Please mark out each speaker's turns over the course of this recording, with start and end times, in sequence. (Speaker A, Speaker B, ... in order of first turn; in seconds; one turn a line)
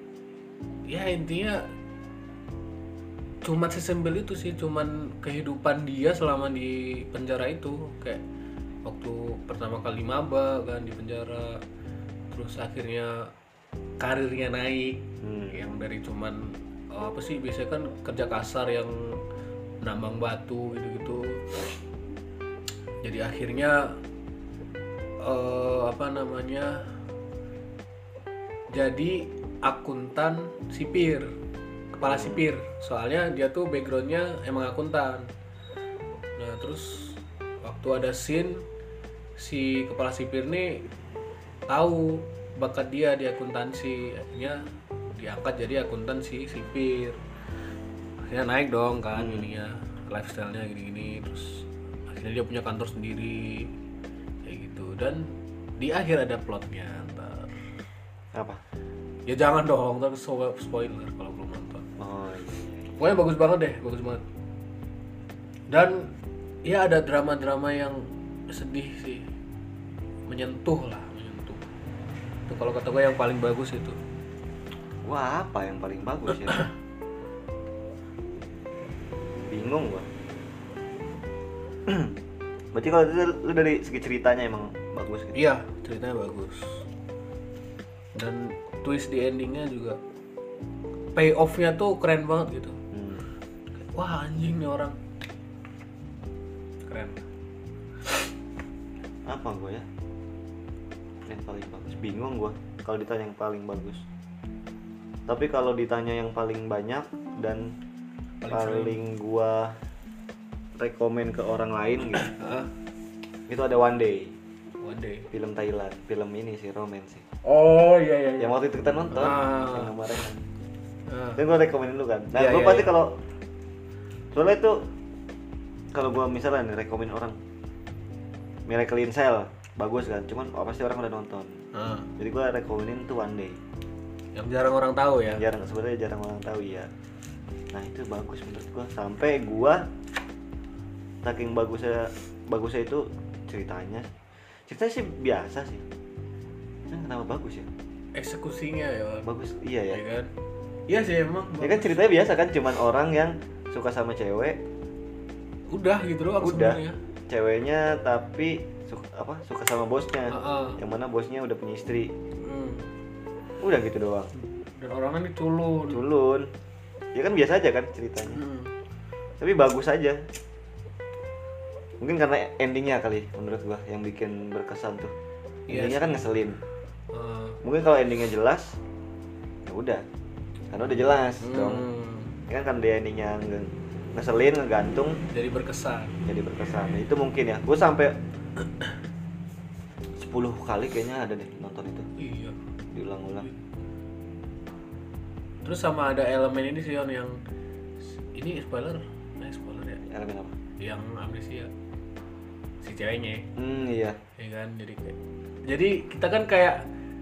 Speaker A: 0.9-1.7
Speaker A: 3.4-8.2
Speaker A: 8.8-11.6
Speaker A: 12.3-13.3
Speaker A: 14.0-19.2
Speaker B: 15.2-15.6
Speaker A: 19.8-21.7
Speaker A: 23.0-24.0
Speaker A: 25.2-26.9
Speaker A: 28.7-31.3
Speaker A: 31.9-35.3
Speaker B: 32.0-32.5
Speaker A: 36.4-38.6
Speaker A: 39.4-40.9
Speaker A: 41.7-44.6
Speaker A: 45.2-47.2
Speaker A: 48.3-53.7
Speaker B: 49.1-49.5
Speaker A: 54.5-57.5
Speaker B: 58.3-58.6
Speaker A: 59.3-61.9
Speaker B: 62.0-63.0
Speaker A: 62.9-64.2
Speaker A: 65.7-66.1
Speaker A: 66.6-69.3
Speaker A: 70.3-71.6
Speaker A: 72.5-74.0
Speaker B: 75.0-76.7
Speaker B: 79.5-80.1
Speaker B: 81.9-82.2
Speaker B: 82.7-85.4
Speaker A: 85.3-86.9
Speaker A: 88.2-90.0
Speaker A: 91.2-92.8
Speaker B: 92.9-93.3
Speaker A: 93.9-95.0
Speaker A: 96.8-97.2
Speaker B: 99.3-99.9
Speaker B: 101.2-104.0
Speaker B: 105.3-107.8
Speaker A: 108.4-109.0
Speaker B: 108.5-109.8
Speaker B: 110.8-112.4
Speaker A: 112.2-112.7
Speaker B: 113.5-114.3
Speaker A: 114.8-115.3
Speaker B: 115.3-117.2
Speaker A: 117.4-119.9
Speaker B: 118.4-120.4
Speaker A: 121.1-121.4
Speaker B: 121.4-123.2
Speaker A: 122.3-123.0
Speaker B: 124.3-124.9
Speaker B: 125.9-127.4
Speaker B: 128.7-131.6
Speaker A: 131.7-132.1
Speaker B: 132.2-133.6
Speaker A: 134.3-135.4
Speaker B: 135.3-136.9
Speaker B: 137.7-139.8
Speaker B: 141.2-145.8
Speaker B: 146.9-147.7
Speaker A: 148.2-149.3
Speaker B: 149.2-150.0
Speaker A: 149.9-150.3
Speaker A: 150.9-152.1
Speaker B: 151.6-154.6
Speaker A: 155.7-157.0
Speaker B: 156.4-162.1
Speaker A: 160.3-160.8
Speaker A: 162.4-162.9
Speaker B: 163.6-164.3
Speaker A: 164.4-166.0
Speaker B: 165.9-166.5
Speaker B: 167.1-168.4
Speaker A: 168.3-168.7
Speaker B: 169.4-170.2
Speaker B: 172.0-175.1
Speaker A: 175.7-176.3
Speaker B: 175.7-176.6
Speaker A: 177.1-177.6
Speaker B: 177.6-178.8
Speaker B: 179.7-180.0
Speaker B: 180.7-181.9
Speaker A: 181.4-182.4
Speaker B: 182.5-185.2
Speaker A: 185.3-186.2
Speaker B: 186.2-188.2
Speaker B: 190.2-192.1
Speaker A: 192.2-192.6
Speaker B: 192.9-193.5
Speaker A: 195.7-197.4
Speaker A: 198.3-200.0
Speaker B: 200.0-200.6
Speaker A: 200.8-201.7
Speaker A: 202.8-203.5
Speaker B: 203.6-204.2
Speaker A: 204.4-206.9